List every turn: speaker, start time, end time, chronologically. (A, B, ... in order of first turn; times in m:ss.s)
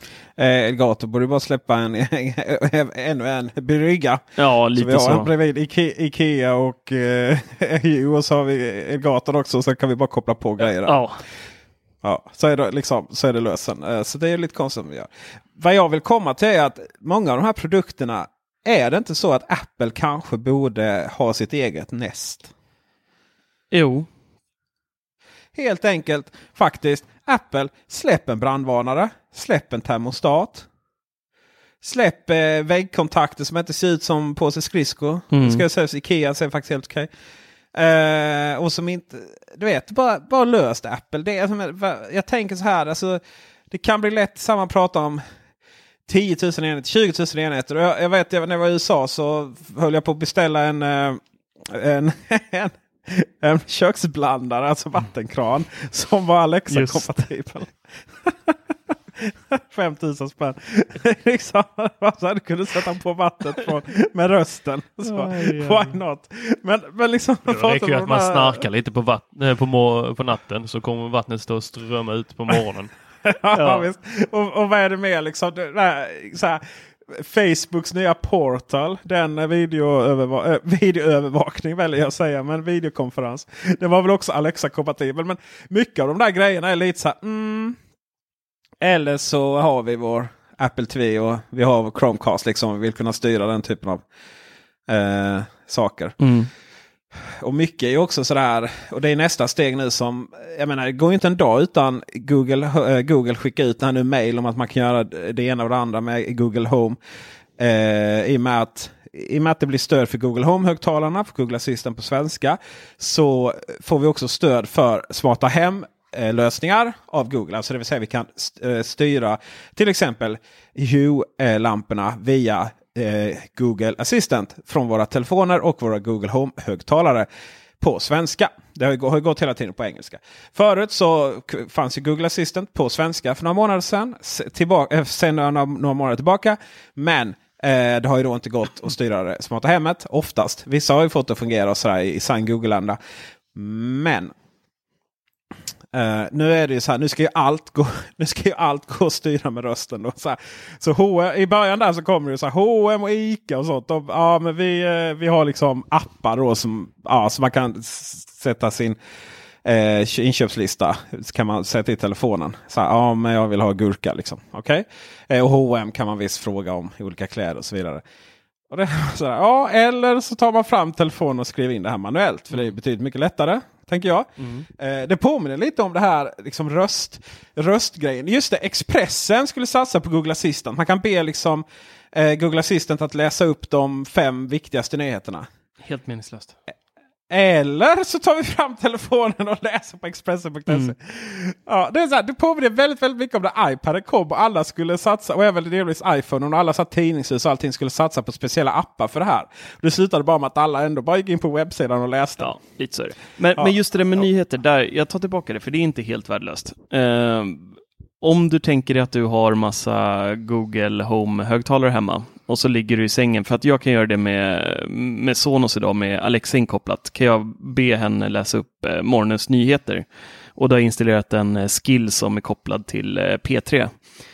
0:00.4-0:11.0 A
0:04.4-0:05.3 B
0:10.6-0:11.2 B
0:12.0-0:22.5 A
0:23.7-0:24.1 B
0:25.6-0:30.7 A
0:31.8-0:37.1 A
0:35.3-0:35.6 B
0:37.7-0:45.2 A
0:46.1-0:58.6 A
0:56.7-0:57.1 B
0:59.2-1:08.7 A
1:05.1-1:06.0 B
1:07.5-1:12.9 C
1:13.2-1:27.8 A
1:13.5-1:13.8 B
1:28.8-1:34.0 A
1:34.9-1:36.2 A
1:36.2-1:36.5 B
1:37.4-1:47.0 A
1:47.6-2:07.3 A
2:07.8-2:23.0 A
2:23.5-2:24.3 A
2:25.9-2:39.0 A
2:39.6-2:48.0 A
2:48.7-3:05.5 A
2:54.4-2:54.7 B
3:05.8-3:06.6 B
3:07.3-3:22.5 A
3:10.7-3:10.9 B
3:22.4-3:44.0 B
3:23.6-3:24.2 A